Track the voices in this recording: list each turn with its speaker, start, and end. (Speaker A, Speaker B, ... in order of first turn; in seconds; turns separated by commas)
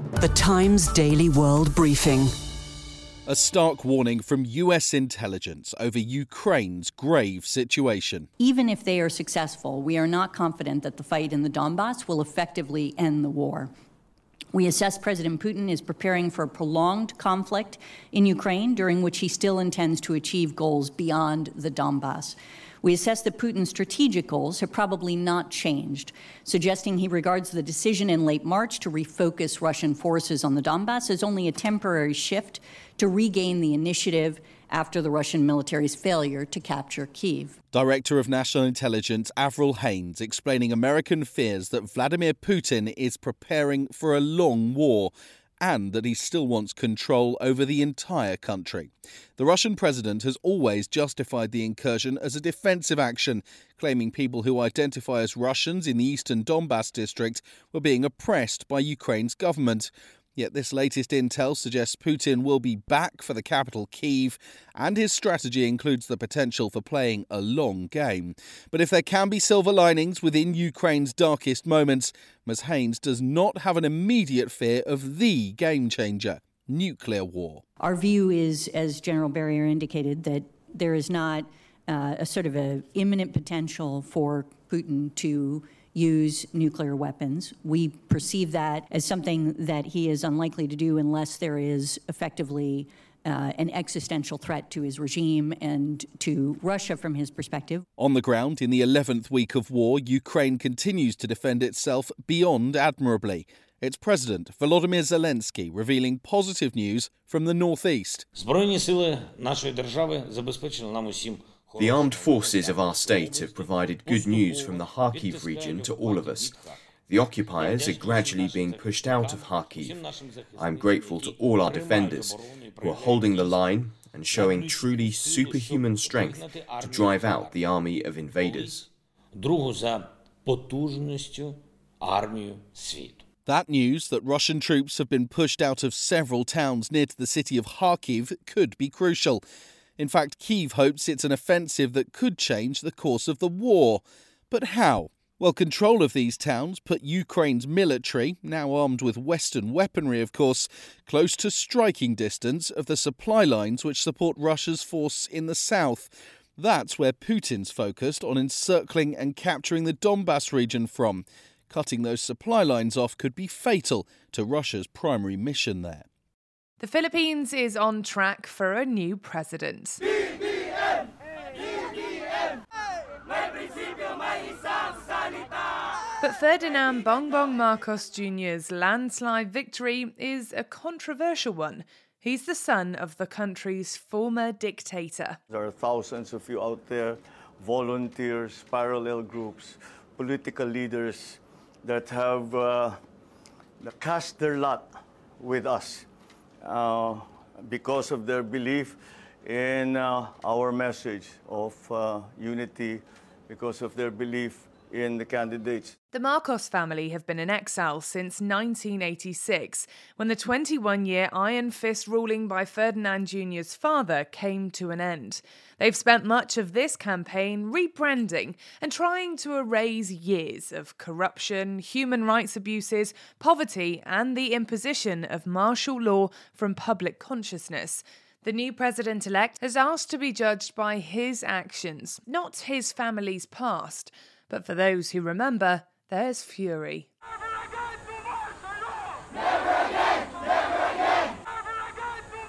Speaker A: 0.2-2.3, Speaker B: 3.3-8.3, Speaker C: 8.4-13.7, Speaker C: 14.5-37.5, Speaker B: 37.7-77.6, Speaker C: 77.8-97.8, Speaker B: 98.0-108.3, Speaker D: 108.4-127.6, Speaker E: 111.8-116.5, Speaker E: 117.1-128.9, Speaker D: 128.3-133.2, Speaker B: 133.4-139.4, Speaker B: 140.0-166.1, Speaker F: 166.8-170.0, Speaker F: 176.2-185.4, Speaker G: 185.5-193.0, Speaker G: 193.8-196.1, Speaker G: 196.6-205.9, Speaker F: 206.1-237.1